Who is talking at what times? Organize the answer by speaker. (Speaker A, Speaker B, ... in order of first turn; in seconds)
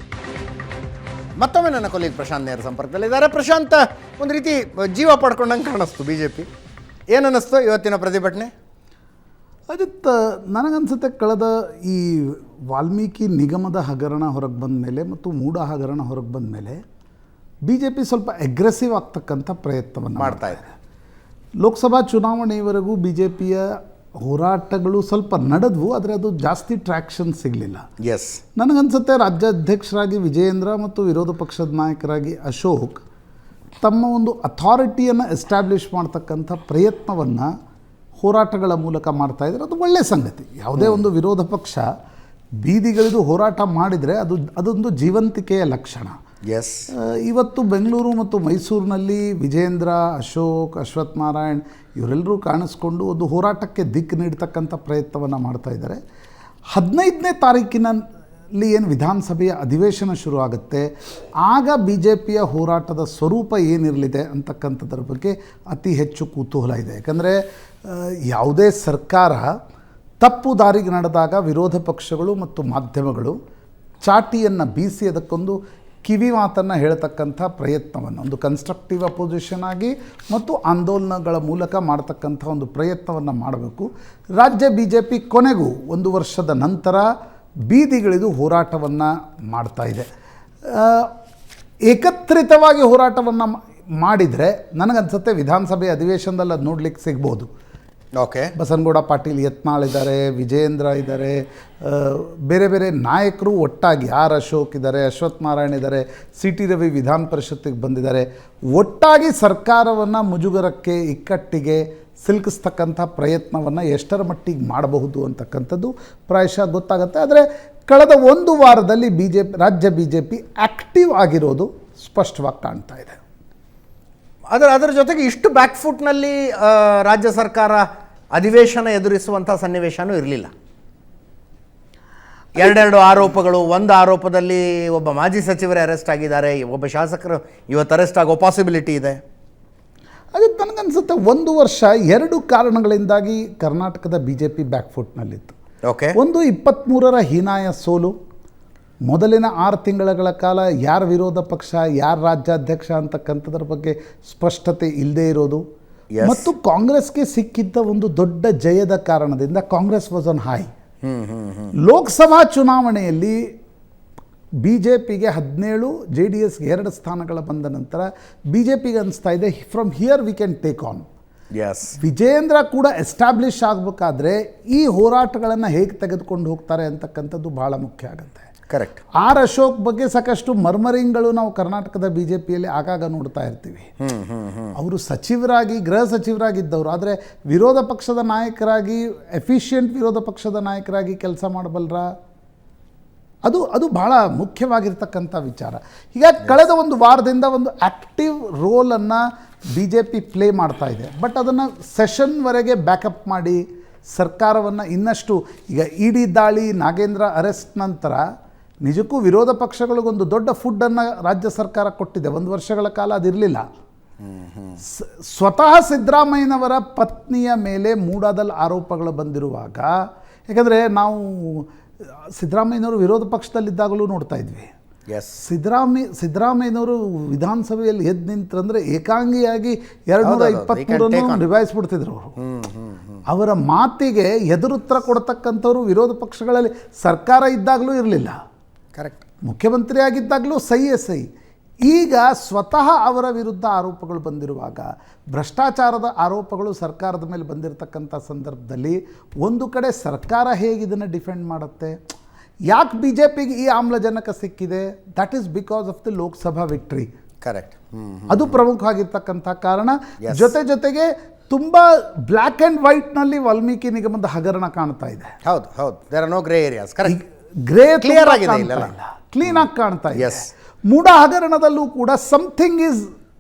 Speaker A: 1.4-6.5, 7.1-8.5, 20.2-20.6, 28.0-28.4, 46.5-46.9, 98.2-98.5, 124.5-130.5, 132.6-139.2, 145.8-146.2, 156.1-156.5, 161.0-161.7, 171.5-171.9, 178.7-179.0, 184.0-184.8, 214.2-214.8, 225.1-225.4, 230.2-231.4, 232.4-233.2, 238.9-239.3, 257.4-258.6, 260.2-260.5, 265.4-267.2, 268.0-268.9, 270.1-270.5
Speaker B: 9.7-16.8, 17.7-20.7, 21.6-23.7, 24.2-27.9, 28.6-33.0, 33.8-37.5, 38.2-41.9, 42.6-46.2, 47.0-56.0, 56.7-58.0, 58.6-60.9, 61.4-69.5, 70.2-73.4, 74.0-87.1, 87.7-90.0, 90.7-91.1, 91.9-97.5, 98.6-123.2, 140.3-145.6, 146.2-148.2, 149.1-155.6, 156.2-160.7, 161.8-163.5, 164.6-171.1, 172.0-178.5, 179.2-183.9, 184.8-192.1, 193.4-208.2, 208.8-213.6, 214.9-221.7, 222.4-224.7, 225.4-232.3, 233.3-238.3, 239.4-241.3, 241.9-252.0, 252.7-257.1, 258.3-265.3, 267.1-273.1